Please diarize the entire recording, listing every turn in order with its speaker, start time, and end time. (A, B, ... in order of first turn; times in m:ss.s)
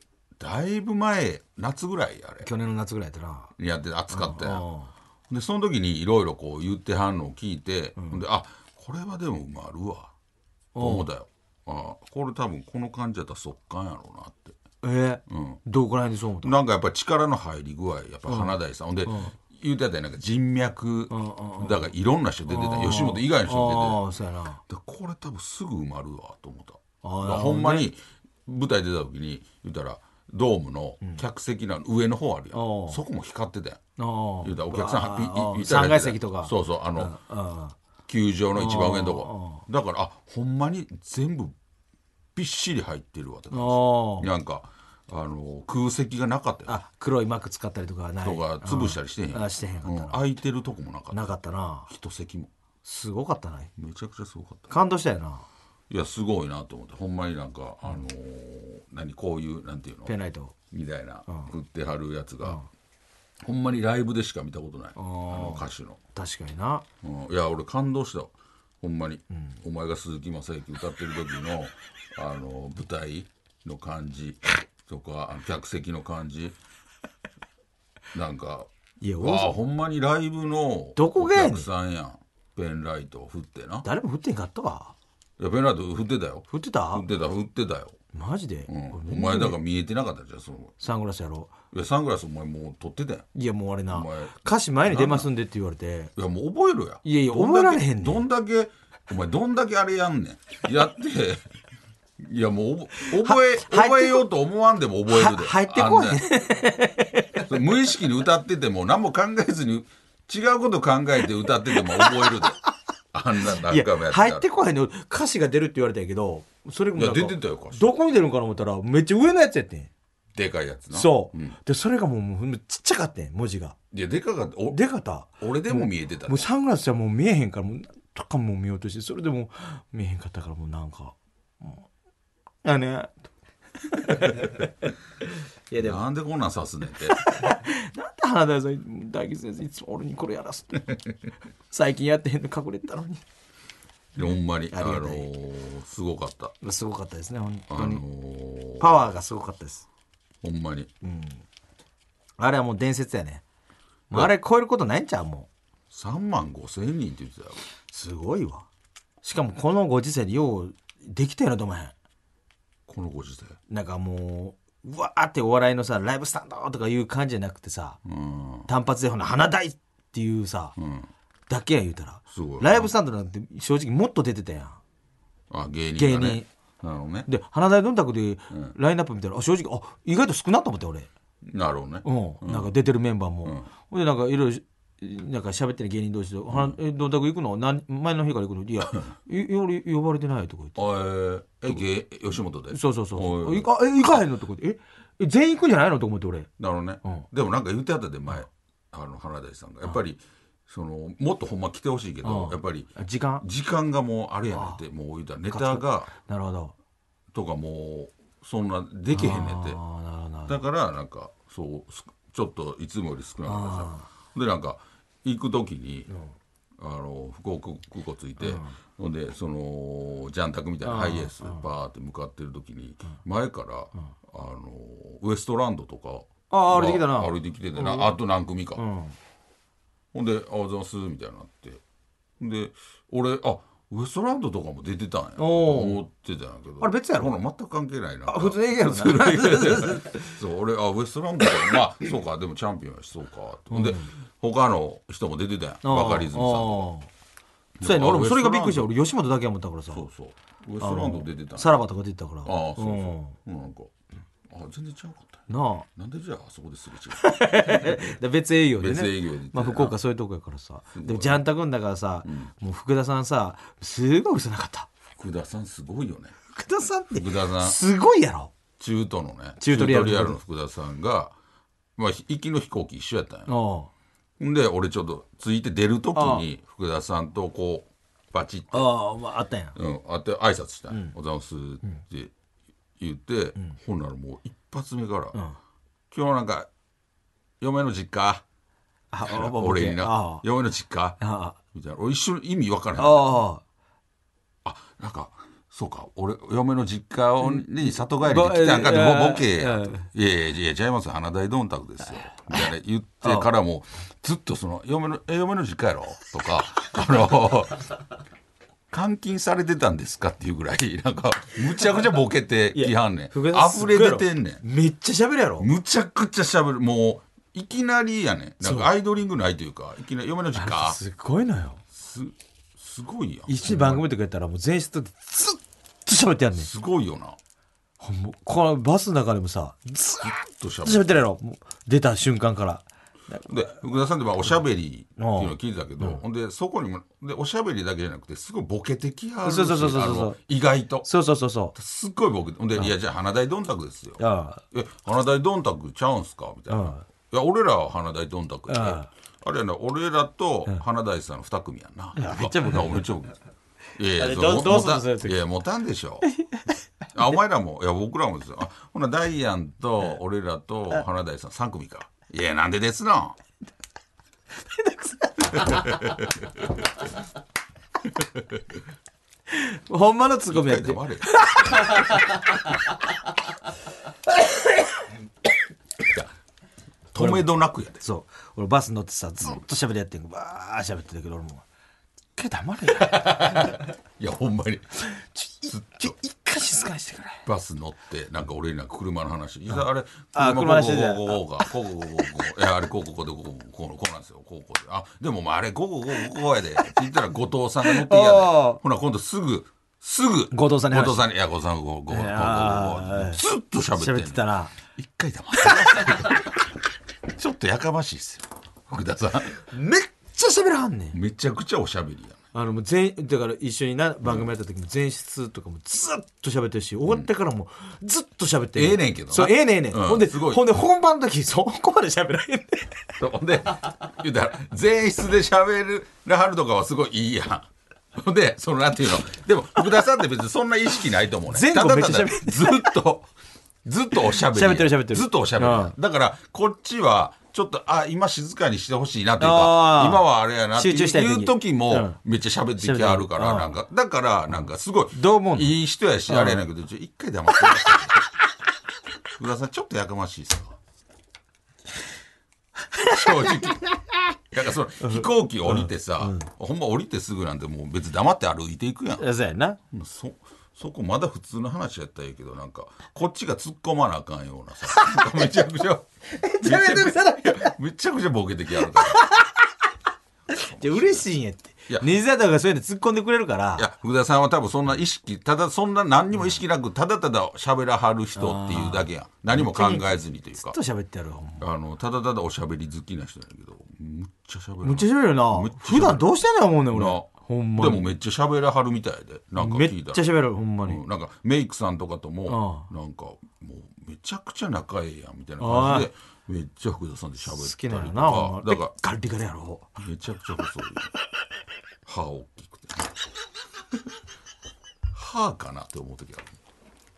0:00.4-0:02.5 A
0:02.4-0:03.5 B
0:03.6-0:04.6 A
0:04.1-0:04.9 B
0:05.3-0:10.1 A
0:10.7-0:11.0 B
0:10.8-0:14.6 A
0:14.8-0:16.6 B
0:15.3-0:15.6 A
0:16.4-0:24.0 A
0:18.3-0:18.5 B
0:19.1-0:19.3 B
0:21.1-0:21.9 B
0:22.5-0:24.6 B
0:24.7-0:33.8 A
0:27.0-0:27.9 B
0:32.5-0:33.0 B
0:34.0-0:37.8 B
0:34.4-0:37.1 A
0:38.1-0:41.6 A
0:38.6-0:39.6 B
0:42.4-0:46.8 A
0:43.5-0:44.3 B
0:46.7-0:50.2 B
0:48.2-0:51.4 A
0:51.1-0:51.9 B
0:51.9-0:52.5 A
0:52.8-0:53.7 B
0:53.8-0:54.7 A
0:54.7-0:55.5 B
0:55.9-1:00.1 A
1:00.1-1:00.6 B
1:00.7-1:02.6 A
1:03.4-1:06.0 A
1:05.0-1:05.6 B
1:06.1-1:06.8 B
1:07.0-1:16.6 A
1:09.3-1:09.6 B
1:18.1-1:18.7 A
1:19.0-1:19.6 B
1:19.2-1:23.9 A
1:21.0-1:21.7 B
1:23.8-1:24.9 B
1:25.4-1:28.0 A
1:26.5-1:27.0 B
1:28.1-1:29.6 B
1:28.7-1:30.8 A
1:30.8-1:31.5 B
1:31.7-1:33.2 A
1:33.3-1:36.1 B
1:33.9-1:35.3 A
1:36.2-1:41.5 A
1:37.0-1:38.2 B
1:42.2-1:46.2 A
1:43.0-1:44.3 B
1:45.1-1:47.5 B
1:47.5-1:52.6 A
1:51.8-1:52.5 B
1:53.1-1:54.4 A
1:53.5-1:59.9 B
1:57.0-1:57.9 A
2:00.4-2:01.6 A
2:00.9-2:03.8 B
2:03.9-2:04.8 A
2:04.7-2:11.9 B
2:05.4-2:06.5 A
2:12.6-2:13.3 B
2:13.9-2:14.7 B
2:15.7-2:16.0 B
2:15.8-2:17.2 A
2:17.1-2:21.0 B
2:21.7-2:23.2 B
2:24.2-2:26.5 A
2:24.7-2:25.2 B
2:26.6-2:28.0 B
2:27.7-2:29.1 A
2:28.8-2:29.9 B
2:30.4-2:30.9 A
2:31.0-2:31.4 B
2:32.4-2:33.4 B
2:34.1-2:35.5 B
2:35.9-2:37.6 A
2:37.9-2:38.7 B
2:39.2-2:41.9 B
2:42.9-2:43.6 A
2:43.7-2:48.0 B
2:48.0-2:48.7 A
2:48.7-2:50.8 B
2:50.8-2:51.1 A
2:51.5-2:54.8 B
2:52.3-2:52.9 A
2:55.5-2:57.3 A
2:56.0-2:56.5 B
2:57.2-3:01.1 B
3:01.4-3:02.7 A
3:02.0-3:10.8 B
3:10.8-3:13.7 A
3:12.7-3:16.5 B
3:16.6-3:26.1 A
3:22.2-3:23.4 B
3:25.5-3:26.7 B
3:27.3-3:29.8 A
3:29.1-3:30.6 B
3:30.5-3:36.1 A
3:33.4-3:34.1 B
3:36.8-3:48.8 A
3:38.4-3:38.7 B
3:40.8-3:41.7 B
3:46.5-3:48.1 B
3:48.8-3:49.2 B
3:50.1-3:51.8 A
3:52.4-4:06.9 A
3:55.4-3:56.0 B
3:56.8-3:57.3 B
3:58.3-4:00.4 B
4:03.7-4:04.1 B
4:05.8-4:07.1 B
4:07.8-4:08.9 A
4:07.8-4:10.0 B
4:09.9-4:11.8 A
4:10.8-4:13.4 B
4:12.4-4:13.9 A
4:14.5-4:15.4 A
4:15.5-4:15.9 B
4:16.0-4:18.1 A
4:17.1-4:24.9 B
4:18.8-4:20.0 A
4:20.9-4:21.4 A
4:22.2-4:22.5 A
4:25.2-4:26.4 A
4:26.5-4:28.5 B
4:27.2-4:27.8 A
4:28.8-4:31.3 A
4:29.6-4:30.4 B
4:32.0-4:33.5 A
4:33.5-4:33.9 B
4:34.4-4:38.9 A
4:36.2-4:36.4 B
4:38.7-4:39.8 B
4:39.8-4:42.3 A
4:40.9-4:41.2 B
4:43.0-4:45.4 A
4:46.1-4:46.7 A
4:47.6-4:48.4 A
4:49.1-4:50.4 B
4:49.2-4:51.2 A
4:51.2-4:51.6 B
4:51.7-4:53.4 A
4:53.0-4:53.6 B
4:54.6-5:07.9 A
4:57.5-5:00.0 B
5:08.9-5:14.6 A
5:12.7-5:15.7 B
5:15.6-5:21.0 A
5:18.6-5:18.9 B
5:20.5-5:21.8 B
5:21.9-5:24.0 A
5:23.5-5:26.7 B
5:26.6-5:27.4 A
5:28.0-5:33.5 B
5:30.2-5:31.2 A
5:33.5-5:41.1 A
5:35.2-5:36.2 B
5:39.4-5:40.4 B
5:41.0-5:41.7 B
5:41.7-5:44.2 A
5:44.2-5:44.6 B
5:44.7-5:53.3 A
5:46.7-5:47.0 B
5:48.7-5:49.1 B
5:52.2-5:53.0 B
5:54.0-5:56.3 A
5:54.2-5:55.4 B
5:56.2-5:56.7 B
5:57.1-6:03.4 A
6:04.7-6:05.9 B
6:05.7-6:06.3 A
6:08.4-6:08.6 A
6:09.5-6:12.6 B
6:10.5-6:12.0 A
6:16.0-6:16.3 A
6:17.1-6:18.0 A
6:17.2-6:17.4 B
6:18.0-6:21.6 B
6:22.4-6:23.8 B
6:23.0-6:25.0 A
6:25.0-6:27.4 B
6:25.7-6:26.1 A
6:27.4-6:44.4 A
6:30.3-6:31.4 B
6:37.8-6:38.8 B
6:40.5-6:41.3 B
6:42.1-6:43.4 B
6:44.0-6:44.7 B
6:45.0-6:46.5 A
6:45.6-6:46.0 B
6:47.3-6:49.5 A
6:49.6-6:51.2 B
6:51.1-6:52.4 A
6:52.5-7:03.1 B
6:58.8-7:00.6 A
7:03.2-7:13.3 A
7:11.5-7:12.9 B
7:13.8-7:28.2 A
7:14.3-7:15.9 B
7:19.4-7:20.2 B
7:20.8-7:22.2 B
7:22.8-7:23.8 B
7:25.1-7:25.7 B
7:26.3-7:26.6 B
7:29.4-7:30.8 A
7:33.0-7:33.8 B
7:33.1-7:33.9 A
7:34.5-7:39.2 A
7:35.0-7:36.5 B
7:39.2-7:39.8 B
7:39.9-7:46.1 A
7:44.9-7:45.4 B
7:46.3-7:47.8 B
7:46.6-7:49.2 A
7:48.9-7:49.7 B
7:50.5-7:51.2 A
7:50.5-7:53.9 B
7:53.8-8:00.8 A
7:58.4-8:01.6 B
8:01.6-8:06.3 A
8:04.8-8:08.1 B
8:06.9-8:10.3 A
8:09.6-8:11.0 B
8:10.8-8:18.9 A
8:12.5-8:12.9 B
8:15.6-8:16.1 B
8:17.4-8:19.9 B
8:20.0-8:21.1 A
8:22.0-8:23.1 A
8:25.1-8:26.5 A